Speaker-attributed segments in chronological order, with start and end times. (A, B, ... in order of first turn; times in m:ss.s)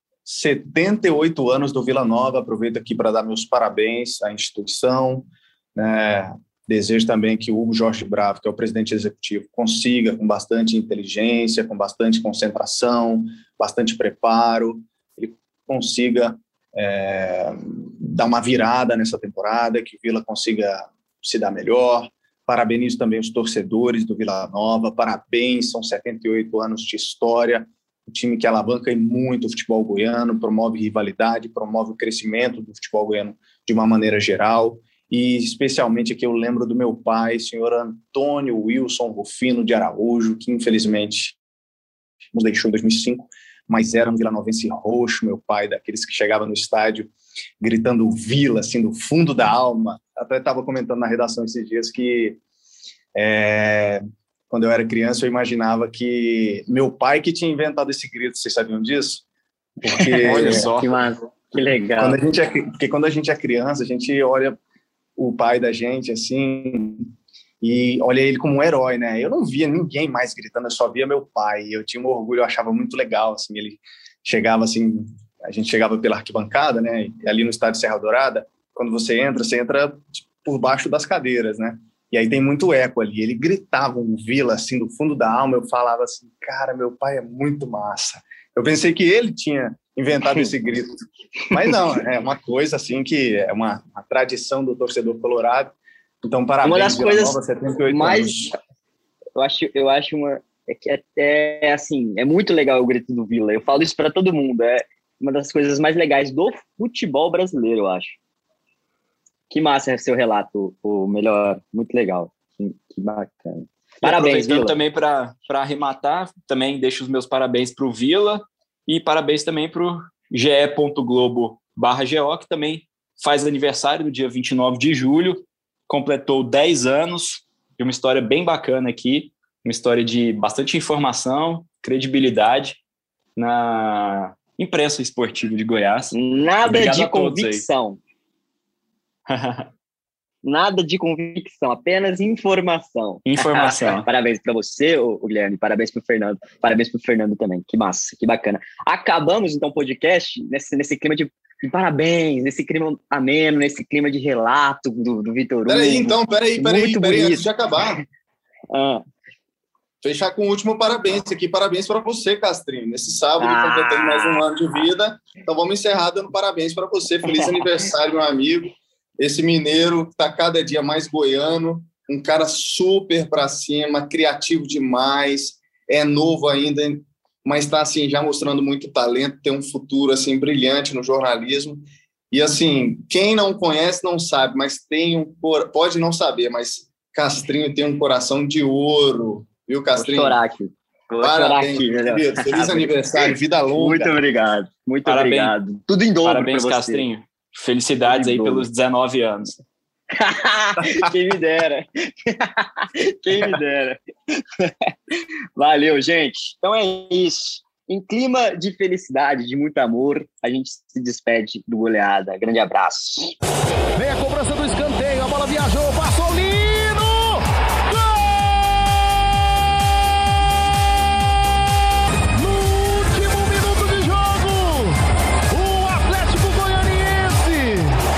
0:00.2-0:41.4 A
0:42.3-0:52.4 A
0:53.1-0:59.2 A
0:59.8-1:00.7 A
0:59.9-1:02.2 B
1:00.2-1:01.0 C
1:02.0-1:04.6 A
1:05.2-1:07.1 A
1:07.6-1:31.0 A
1:31.5-1:38.5 A
1:36.6-1:38.6 B
1:39.4-1:48.2 B
1:49.5-1:54.7 B
1:54.0-2:12.8 C
2:13.4-2:17.6 C
2:16.1-2:18.0 B
2:19.3-2:19.7 C
2:20.4-2:37.5 B
2:23.2-2:24.0 C
2:35.7-2:38.0 A
2:38.7-2:39.0 B
2:40.0-3:10.4 A
2:43.4-2:44.4 B
2:47.2-2:47.7 B
3:09.9-3:17.0 B
3:11.2-3:14.2 A
3:15.0-3:15.5 C
3:16.2-3:19.6 C
3:18.0-3:18.7 B
3:20.1-3:24.0 B
3:24.6-3:33.3 B
3:34.0-3:39.3 D
3:42.3-3:45.0 D
3:45.5-3:48.0 D